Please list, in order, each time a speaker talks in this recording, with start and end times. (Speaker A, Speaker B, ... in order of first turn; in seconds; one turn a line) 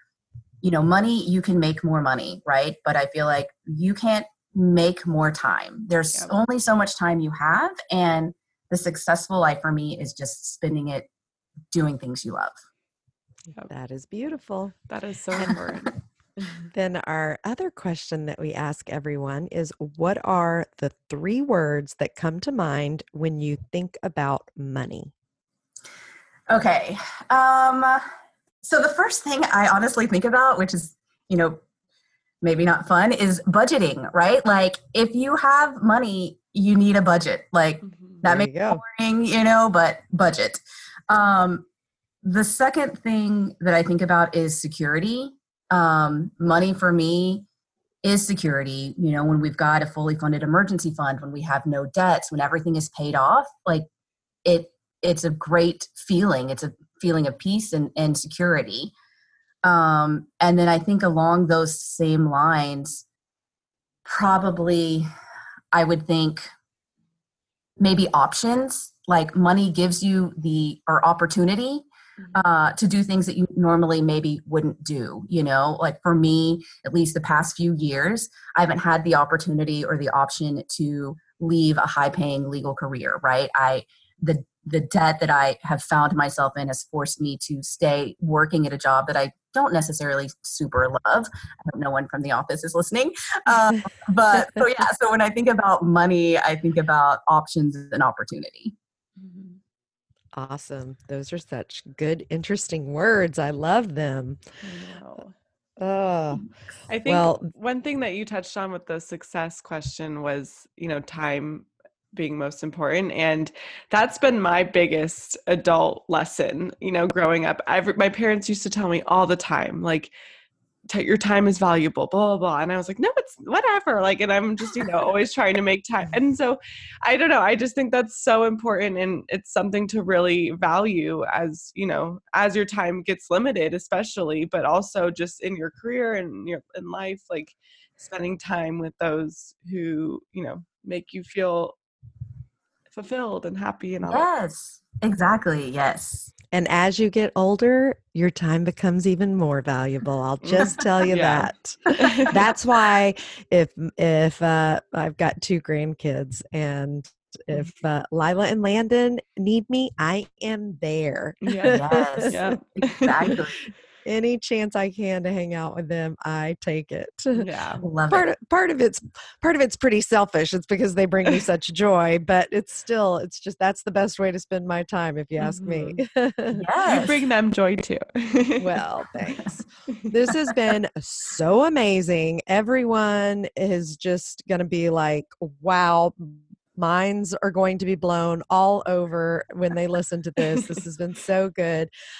Speaker A: 0.6-11.1
Speaker A: 11.7-12.6
Speaker B: 13.7-14.8
Speaker C: 14.9-16.6
Speaker B: 15.3-15.6
Speaker B: 16.7-25.1
Speaker A: 26.5-28.0
Speaker A: 28.6-31.6
Speaker A: 32.4-41.6
Speaker C: 37.8-38.2
Speaker B: 38.2-38.8
Speaker A: 42.2-47.4
Speaker A: 48.0-53.9
Speaker A: 54.4-58.9
Speaker A: 59.6-63.0
Speaker A: 64.0-65.1
Speaker A: 65.7-66.5
Speaker A: 67.8-98.7
Speaker C: 99.2-99.6
Speaker B: 100.3-104.4
Speaker C: 104.6-105.3
Speaker B: 105.8-106.5
Speaker C: 106.9-120.1
Speaker B: 107.0-107.5
Speaker C: 120.9-141.8
Speaker C: 142.9-144.3
Speaker A: 144.1-146.3
Speaker B: 146.5-162.4
Speaker C: 150.4-152.4
Speaker C: 161.4-163.7
Speaker A: 161.7-163.6
Speaker B: 164.0-167.5
Speaker C: 167.3-167.8
Speaker A: 167.8-168.3
Speaker B: 168.1-176.7
Speaker C: 175.4-176.0
Speaker A: 176.5-177.2
Speaker C: 176.9-178.8
Speaker B: 178.6-191.9